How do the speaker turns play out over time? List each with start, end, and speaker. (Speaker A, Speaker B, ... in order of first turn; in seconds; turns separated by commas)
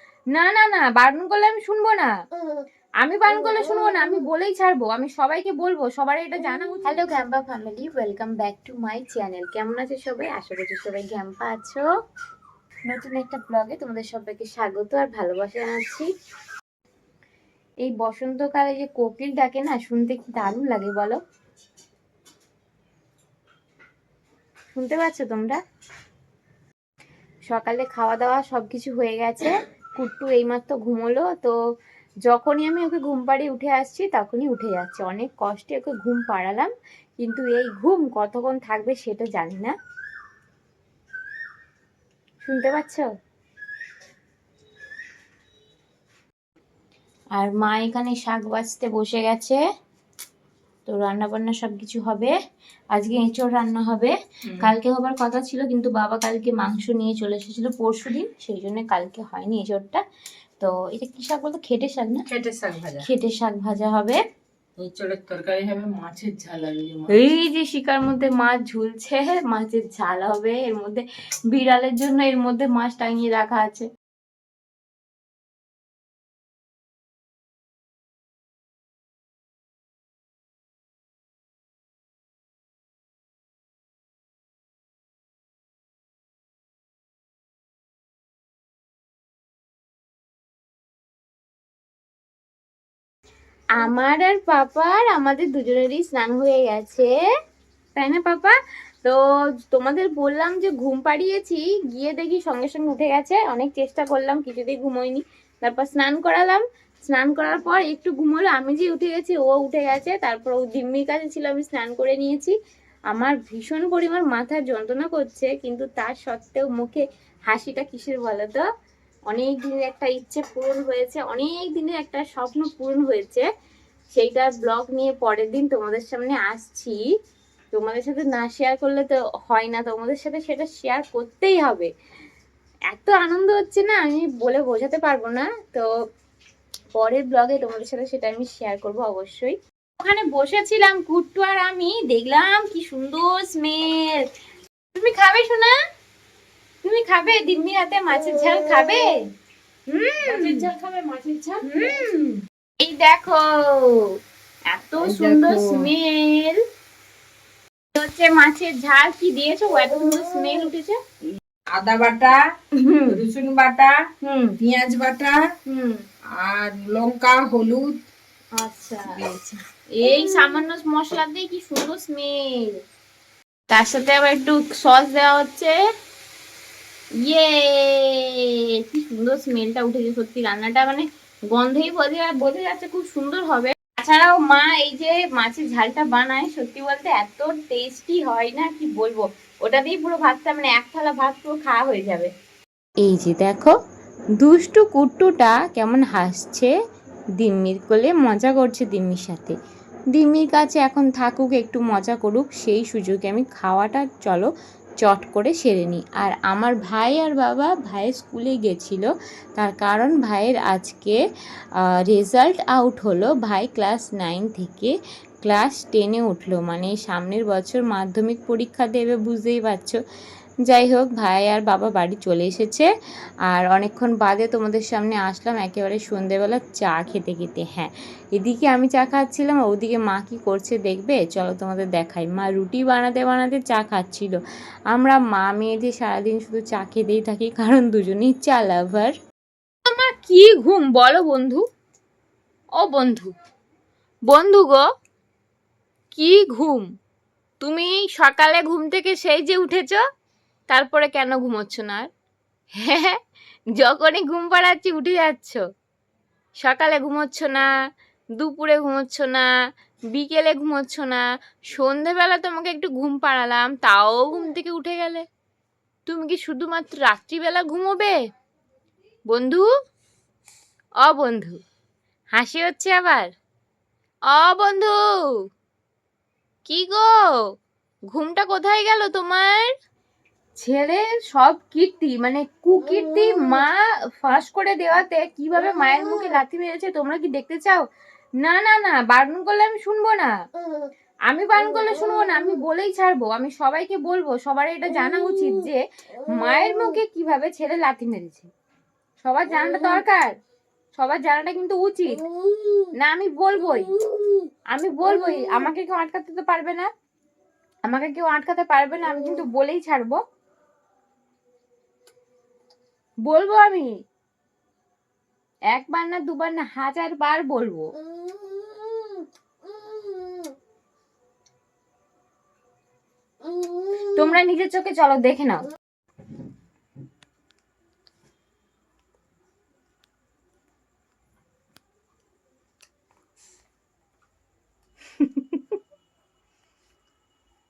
Speaker A: 0.3-2.1, Speaker A: 3.0-11.8, Speaker A: 12.9-16.1, Speaker A: 17.9-21.2, Speaker A: 24.7-25.6, Speaker A: 27.5-31.6, Speaker A: 32.3-39.7, Speaker A: 42.4-43.1, Speaker A: 47.4-49.6, Speaker A: 50.9-52.3, Speaker A: 52.9-60.0, Speaker A: 60.6-62.2, Speaker B: 62.3-63.1, Speaker A: 63.0-64.2, Speaker B: 64.8-67.2, Speaker A: 67.1-73.9, Speaker A: 93.8-97.1, Speaker A: 98.0-99.2, Speaker A: 99.7-112.6, Speaker A: 113.1-118.6, Speaker A: 119.3-123.5, Speaker A: 124.2-127.0, Speaker A: 127.7-131.9, Speaker A: 132.9-135.9, Speaker A: 137.0-144.2, Speaker A: 144.9-145.8, Speaker A: 146.8-149.1, Speaker A: 149.9-150.7, Speaker B: 150.2-152.1, Speaker A: 151.6-154.2, Speaker A: 154.7-156.6, Speaker B: 155.0-155.9, Speaker A: 157.9-161.0, Speaker B: 161.7-162.4, Speaker A: 162.8-163.2, Speaker B: 163.1-165.4, Speaker A: 164.2-164.6, Speaker A: 165.7-166.0, Speaker B: 166.4-168.0, Speaker A: 168.6-169.2, Speaker B: 169.2-169.6, Speaker A: 169.9-172.8, Speaker A: 173.7-175.8, Speaker A: 177.2-192.3, Speaker A: 193.0-193.8, Speaker A: 194.4-196.7, Speaker A: 197.4-199.6, Speaker A: 200.1-204.5, Speaker A: 205.0-211.2, Speaker A: 212.0-220.0, Speaker A: 220.7-222.9, Speaker A: 223.5-234.4, Speaker A: 234.9-239.1, Speaker A: 239.9-241.6, Speaker A: 242.8-243.3, Speaker A: 244.3-244.8, Speaker A: 246.1-246.9, Speaker A: 247.6-250.0, Speaker A: 250.7-252.1, Speaker A: 252.8-253.2, Speaker A: 253.8-255.6, Speaker A: 256.6-257.7, Speaker A: 258.4-259.5, Speaker A: 260.1-265.3, Speaker A: 266.1-268.2, Speaker A: 269.3-269.7, Speaker A: 271.0-271.6, Speaker A: 272.4-273.3, Speaker A: 274.3-275.4, Speaker A: 276.7-277.4, Speaker A: 278.1-279.7, Speaker A: 280.6-287.8, Speaker A: 288.4-290.3, Speaker A: 291.3-298.5, Speaker A: 299.2-300.3, Speaker A: 301.0-302.2, Speaker A: 302.9-303.9, Speaker A: 304.7-306.9, Speaker A: 307.9-310.2, Speaker A: 313.3-313.9, Speaker A: 315.7-317.9, Speaker A: 324.1-325.7, Speaker A: 335.2-335.8